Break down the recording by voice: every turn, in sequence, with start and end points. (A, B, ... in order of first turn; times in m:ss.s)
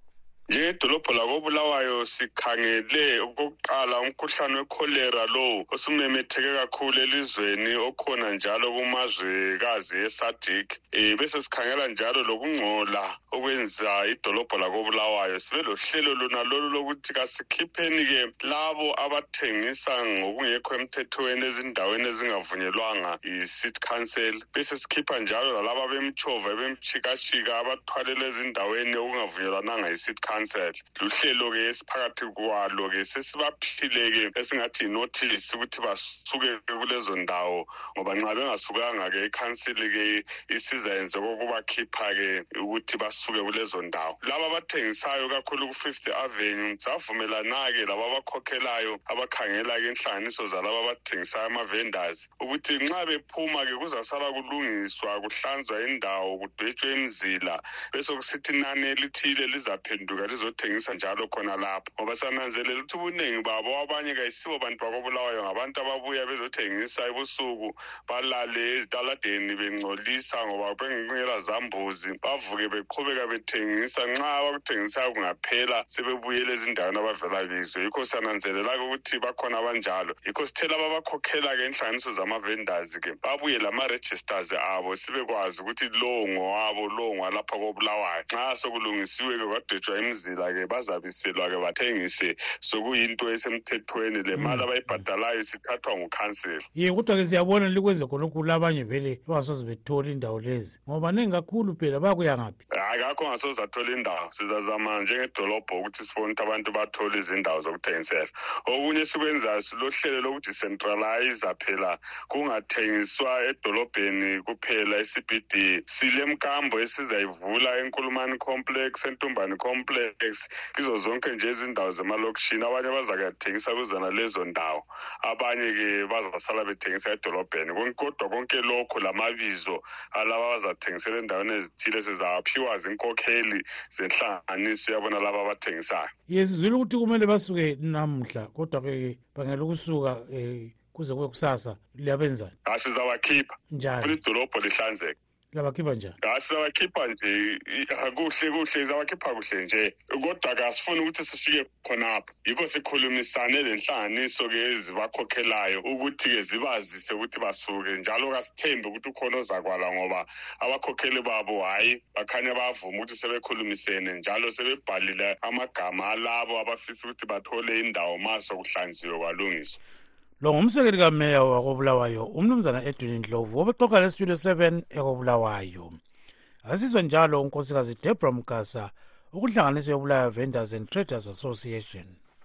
0:00.5-1:36.6 A
1:34.4-1:34.7 B
1:36.7-1:42.6 B
1:42.7-2:16.1 A
2:16.3-2:22.5 B
2:22.6-2:25.2 A
2:23.7-2:24.2 B
2:25.5-2:26.2 B
2:26.2-2:49.8 A
2:50.4-2:56.0 B
2:56.6-3:02.1 B